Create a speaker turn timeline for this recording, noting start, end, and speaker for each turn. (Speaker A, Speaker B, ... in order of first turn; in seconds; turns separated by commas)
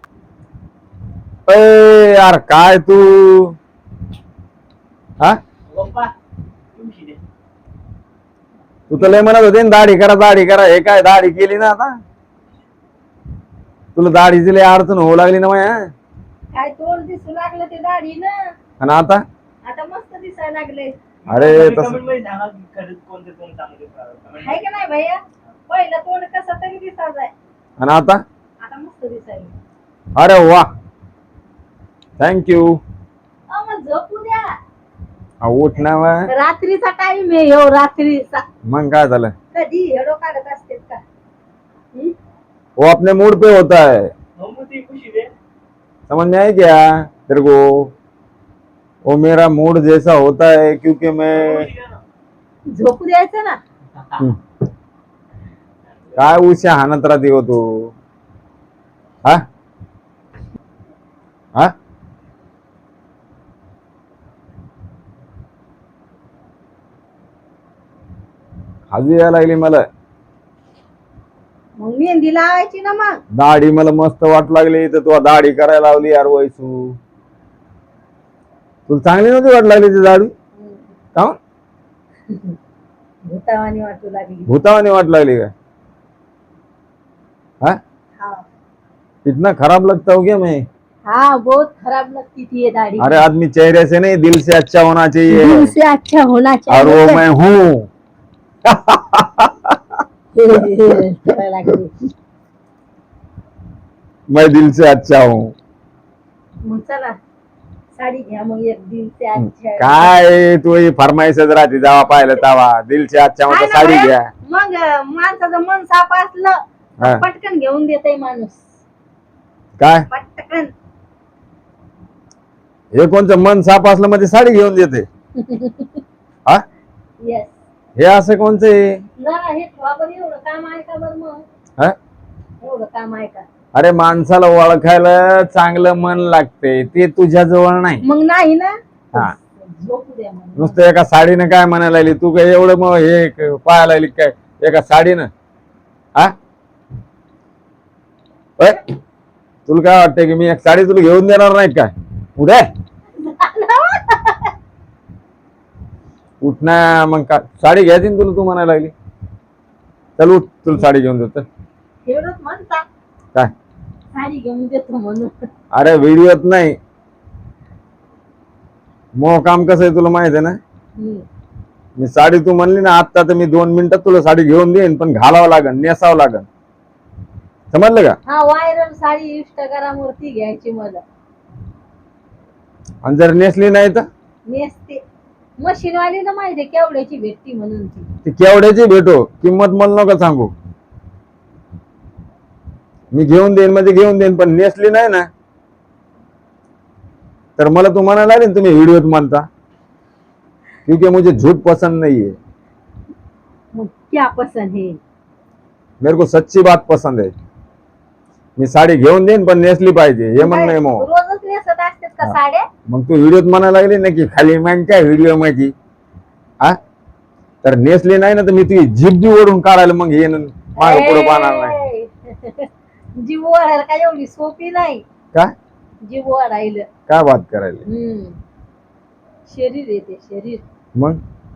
Speaker A: 1.5-3.5, Speaker B: 5.7-6.1, Speaker B: 6.7-7.2, Speaker A: 8.9-12.0, Speaker A: 13.9-15.9, Speaker C: 16.5-18.3, Speaker A: 18.8-19.2, Speaker C: 19.6-21.0, Speaker B: 21.2-24.6, Speaker A: 21.3-22.0, Speaker C: 24.4-27.3, Speaker A: 27.8-28.2, Speaker C: 28.6-29.5, Speaker A: 30.1-30.7, Speaker A: 32.2-32.8, Speaker C: 33.5-34.6, Speaker A: 35.4-36.3, Speaker C: 36.3-38.4, Speaker A: 38.6-39.3, Speaker C: 39.5-41.0, Speaker A: 42.8-44.1, Speaker B: 44.4-45.3, Speaker A: 46.1-47.9, Speaker A: 49.0-51.7, Speaker B: 51.4-52.0, Speaker C: 52.7-53.6, Speaker A: 56.1-57.9, Speaker A: 68.9-69.8, Speaker C: 71.8-73.2, Speaker A: 73.3-77.0, Speaker A: 78.9-80.3, Speaker C: 80.6-80.8, Speaker C: 82.3-82.5, Speaker C: 83.3-84.5, Speaker A: 84.5-85.5, Speaker C: 88.2-88.4, Speaker A: 89.2-90.6, Speaker C: 91.1-93.2, Speaker A: 93.0-95.7, Speaker C: 95.3-97.2, Speaker A: 96.7-97.9, Speaker A: 98.7-99.8, Speaker C: 100.3-101.9, Speaker A: 104.3-105.5, Speaker C: 106.6-107.2, Speaker C: 107.9-110.2, Speaker A: 109.4-114.3, Speaker C: 113.5-118.6, Speaker A: 119.8-120.1, Speaker C: 120.1-120.7, Speaker A: 122.9-125.0, Speaker C: 125.4-126.0, Speaker C: 127.2-127.5, Speaker A: 128.0-128.9, Speaker C: 129.2-131.4, Speaker C: 132.6-133.4, Speaker A: 133.7-138.0, Speaker C: 138.0-140.8, Speaker A: 140.6-145.3, Speaker A: 149.7-152.7, Speaker C: 153.2-154.5, Speaker A: 156.4-158.9, Speaker A: 160.2-161.4, Speaker C: 162.1-162.8, Speaker C: 164.1-165.3, Speaker A: 165.7-166.8, Speaker A: 169.2-170.6, Speaker C: 171.0-171.2, Speaker A: 172.0-176.4, Speaker A: 177.7-178.2, Speaker C: 178.2-181.0, Speaker A: 183.0-184.1, Speaker C: 184.5-185.0, Speaker C: 185.6-188.1, Speaker A: 188.2-190.5, Speaker A: 193.1-195.3, Speaker A: 197.6-199.4, Speaker A: 200.8-202.3, Speaker C: 203.7-205.0, Speaker A: 206.0-207.3, Speaker A: 208.6-211.1, Speaker C: 210.3-212.7, Speaker A: 212.9-215.7, Speaker A: 217.6-221.7, Speaker C: 220.8-225.0, Speaker C: 226.0-226.9, Speaker A: 227.1-227.8, Speaker C: 227.8-228.4, Speaker C: 229.5-230.6